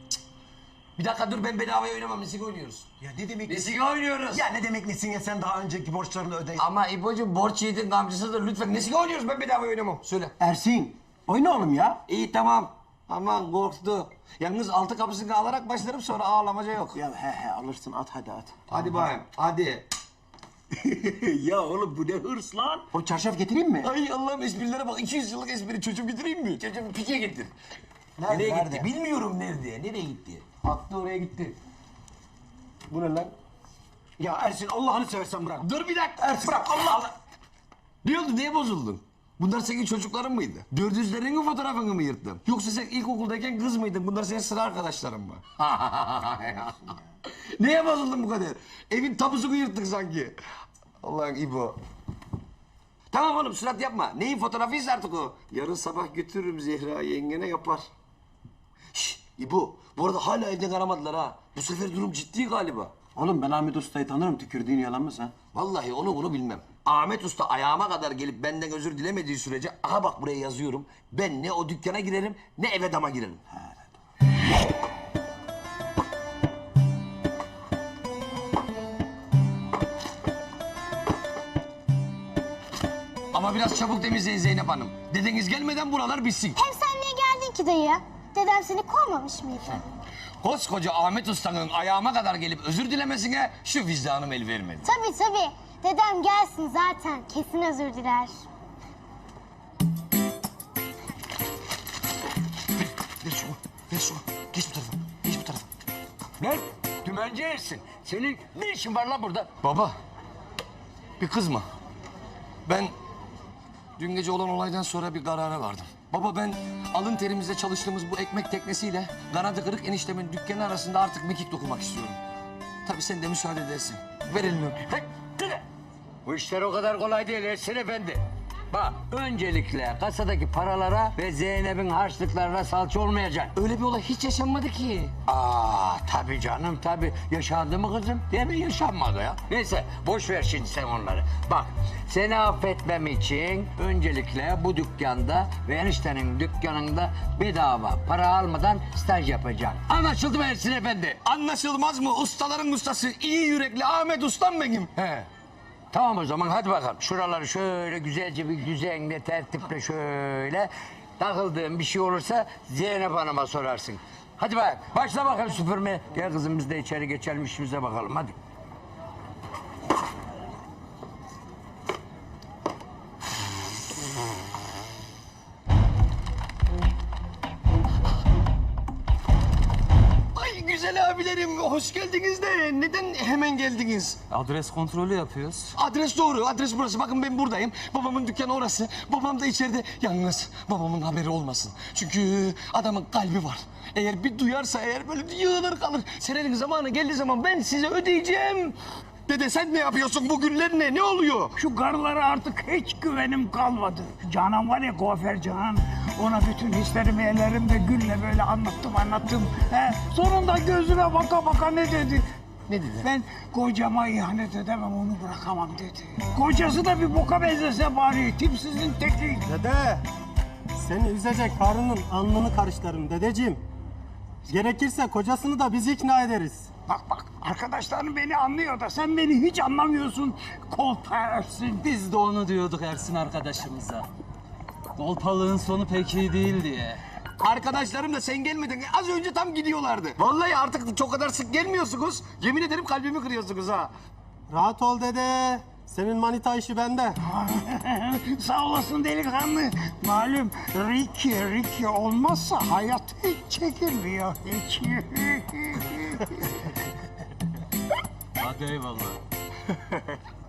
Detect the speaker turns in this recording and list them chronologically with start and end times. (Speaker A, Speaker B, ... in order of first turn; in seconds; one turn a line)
Speaker A: 1.0-2.9
Speaker B: 3.0-3.7
Speaker A: 3.5-4.4
Speaker B: 4.3-6.6
Speaker A: 6.6-10.3
Speaker B: 10.4-12.0
Speaker A: 12.1-17.0
Speaker B: 16.9-19.1
Speaker A: 18.7-19.9
Speaker B: 21.2-23.9
Speaker A: 23.8-27.5
Speaker B: 28.2-28.9
Speaker A: 28.3-30.9
Speaker B: 30.6-31.5
Speaker A: 32.9-33.3
Speaker B: 34.2-35.7
Speaker A: 35.6-36.9
Speaker B: 36.2-37.1
Speaker A: 38.0-50.3
Speaker A: 51.0-51.8
Speaker A: 53.1-57.9
Speaker A: 58.9-62.9
Speaker B: 63.1-65.3
Speaker A: 65.5-73.4
Speaker A: 83.3-86.6
Speaker C: 86.6-89.8
Speaker A: 90.4-94.9
Speaker C: 94.8-98.4
Speaker A: 103.2-105.6
Speaker D: 106.4-109.5
Speaker A: 109.6-109.9
Speaker A: 111.2-111.7
Speaker A: 112.7-112.9
Speaker A: 114.0-122.2
Speaker A: 122.8-125.5
Speaker D: 126.2-133.5
Speaker A: 133.6-135.2
Speaker D: 135.2-151.2
Speaker A: 151.2-155.3
Speaker D: 155.9-168.3
Speaker A: 180.3-184.2
Speaker E: 184.3-185.7
Speaker A: 185.7-201.5
Speaker F: 201.6-212.2
Speaker A: 212.7-213.1
Speaker F: 213.0-219.5
Speaker G: 219.4-220.0
Speaker G: 220.8-223.6
Speaker G: 224.4-226.7
Speaker F: 226.9-231.9
Speaker E: 231.9-234.0
Speaker E: 235.0-236.9
Speaker A: 237.4-243.9
Speaker G: 244.5-247.2
Speaker F: 247.3-256.5
Speaker E: 258.4-259.1